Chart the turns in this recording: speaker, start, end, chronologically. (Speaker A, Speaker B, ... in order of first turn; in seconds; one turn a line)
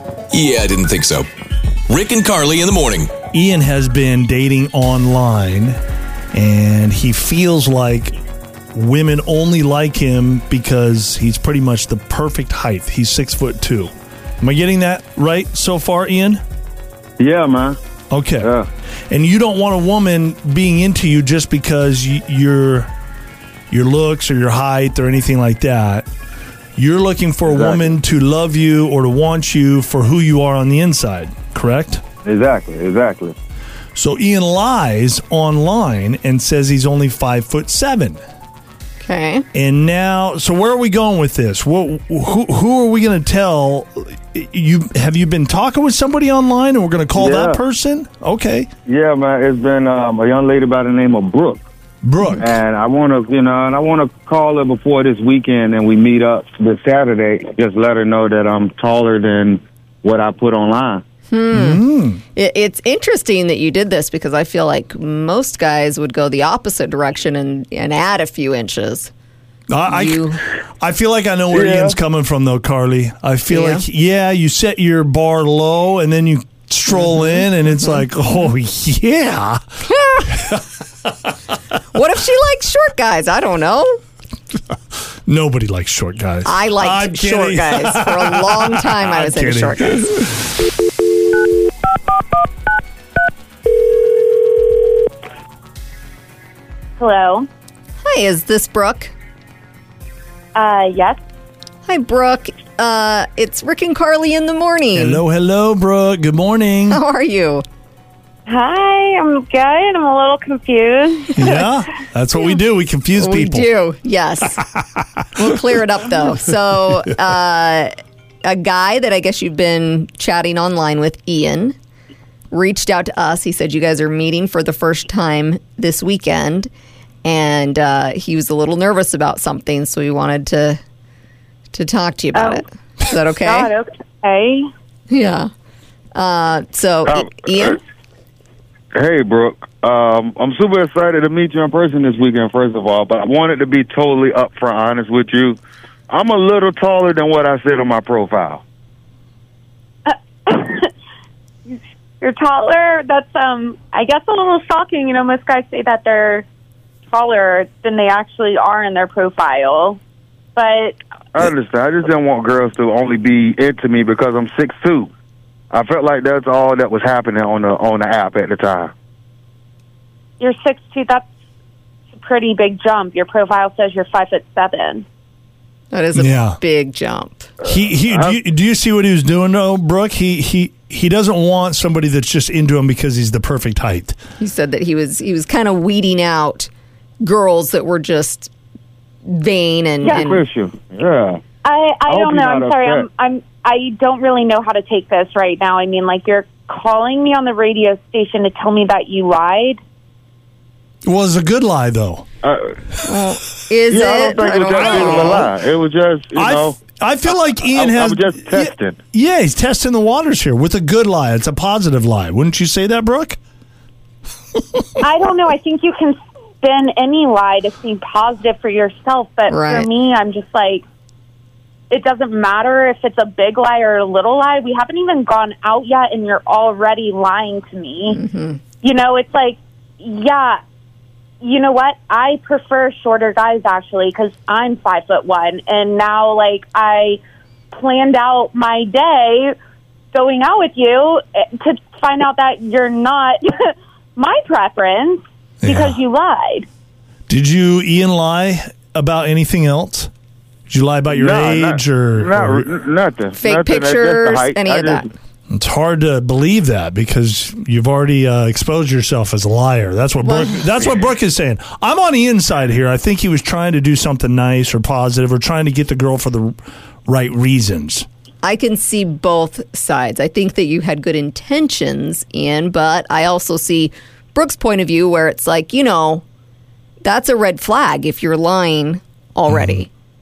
Speaker A: 0.3-1.3
Speaker A: 1.9-3.1
Speaker B: 3.3-5.8
Speaker B: 6.3-8.1
Speaker B: 8.7-16.4
Speaker C: 17.2-17.8
Speaker B: 18.1-18.5
Speaker C: 18.4-18.7
Speaker B: 19.1-22.9
Speaker B: 23.7-26.1
Speaker B: 26.8-32.0
Speaker C: 27.5-27.9
Speaker C: 32.2-33.3
Speaker B: 33.9-38.2
Speaker D: 39.0-39.5
Speaker B: 39.5-48.7
Speaker C: 47.1-47.6
Speaker C: 48.9-51.6
Speaker B: 52.0-52.5
Speaker C: 52.4-61.0
Speaker D: 61.3-69.1
Speaker B: 61.5-62.2
Speaker B: 69.7-79.6
Speaker D: 69.9-70.4
Speaker C: 71.5-71.9
Speaker D: 73.5-73.8
Speaker D: 76.9-77.5
Speaker D: 79.9-80.2
Speaker B: 80.3-80.6
Speaker D: 81.9-84.0
Speaker B: 85.2-90.5
Speaker D: 86.4-90.0
Speaker E: 97.0-97.5
Speaker D: 98.0-99.1
Speaker E: 100.5-101.2
Speaker D: 101.8-105.2
Speaker B: 104.9-107.0
Speaker D: 106.9-107.6
Speaker E: 108.5-111.4
Speaker B: 111.3-113.7
Speaker D: 113.2-114.6
Speaker D: 115.3-117.9
Speaker D: 118.4-121.7
Speaker D: 122.5-126.7
Speaker D: 127.2-130.8
Speaker D: 131.7-133.7
Speaker E: 132.3-132.6
Speaker E: 133.4-134.7
Speaker D: 135.1-135.5
Speaker D: 136.1-137.8
Speaker C: 137.1-137.8
Speaker C: 138.9-148.6
Speaker E: 150.1-150.9
Speaker E: 151.7-156.4
Speaker E: 157.1-160.0
Speaker E: 160.6-161.0
Speaker C: 161.3-165.1
Speaker C: 165.7-168.9
Speaker E: 170.4-171.2
Speaker E: 172.1-175.0
Speaker D: 175.9-177.5
Speaker B: 176.1-176.6
Speaker B: 177.6-184.2
Speaker D: 184.4-186.7
Speaker D: 187.2-188.5
Speaker D: 189.3-190.4
Speaker C: 190.0-191.4
Speaker E: 190.0-190.3
Speaker E: 191.6-199.8
Speaker C: 192.1-193.1
Speaker B: 201.0-202.2
Speaker C: 202.4-202.8
Speaker D: 203.0-205.5
Speaker C: 203.9-206.8
Speaker B: 204.8-205.4
Speaker B: 206.3-213.4
Speaker C: 207.7-209.0
Speaker E: 215.0-220.8
Speaker D: 219.5-219.9
Speaker E: 221.9-228.2
Speaker D: 228.1-228.6
Speaker E: 228.8-230.6
Speaker E: 231.4-237.2
Speaker E: 237.7-239.6
Speaker E: 240.1-246.7
Speaker B: 245.6-245.9
Speaker B: 247.3-250.1
Speaker B: 250.7-252.7
Speaker C: 251.1-255.1
Speaker D: 253.4-255.1
Speaker B: 255.5-268.1
Speaker D: 260.2-260.9
Speaker D: 268.4-276.2
Speaker D: 277.0-279.9
Speaker B: 279.5-279.8